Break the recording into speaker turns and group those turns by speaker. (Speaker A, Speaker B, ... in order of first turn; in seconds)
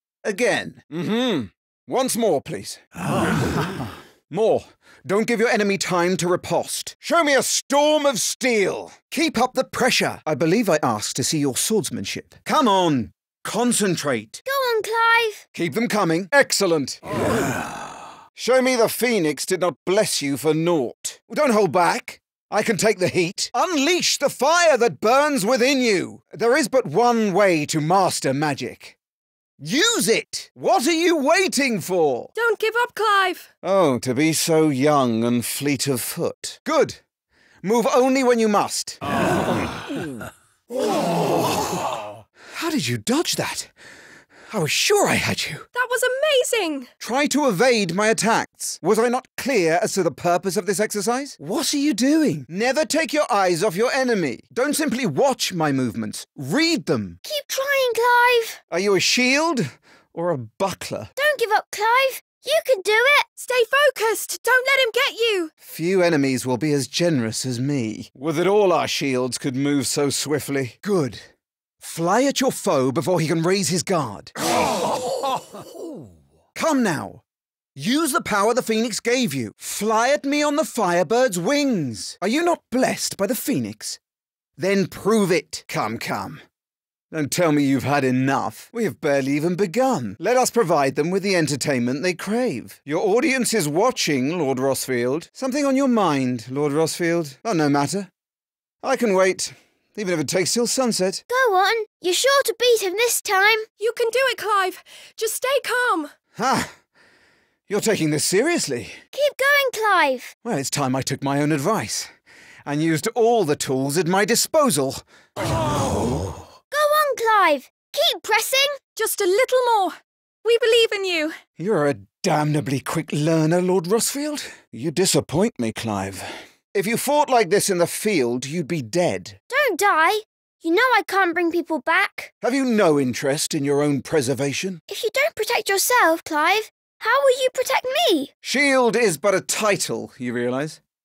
Speaker A: 0.2-14.4, 15.5-17.4, 18.4-28.9, 29.6-32.3, 33.6-37.0, 37.6-39.8, 42.5-43.7, 44.5-45.6, 47.0-57.2, 58.7-61.1, 65.6-71.2, 71.8-74.3, 76.5-77.2, 77.8-84.0, 84.6-86.4, 87.1-98.1, 98.8-101.2, 106.4-106.7, 107.7-109.0, 110.4-112.1, 112.7-116.3, 121.6-129.4, 132.4-134.8, 138.4-140.8
Speaker B: 14.5-15.4, 57.2-58.6, 61.2-63.2, 101.3-103.7, 109.1-110.3, 116.7-118.8, 129.5-132.3, 134.9-138.3
Speaker C: 32.4-33.4, 45.7-46.9, 63.4-65.5, 103.8-106.1, 118.9-121.3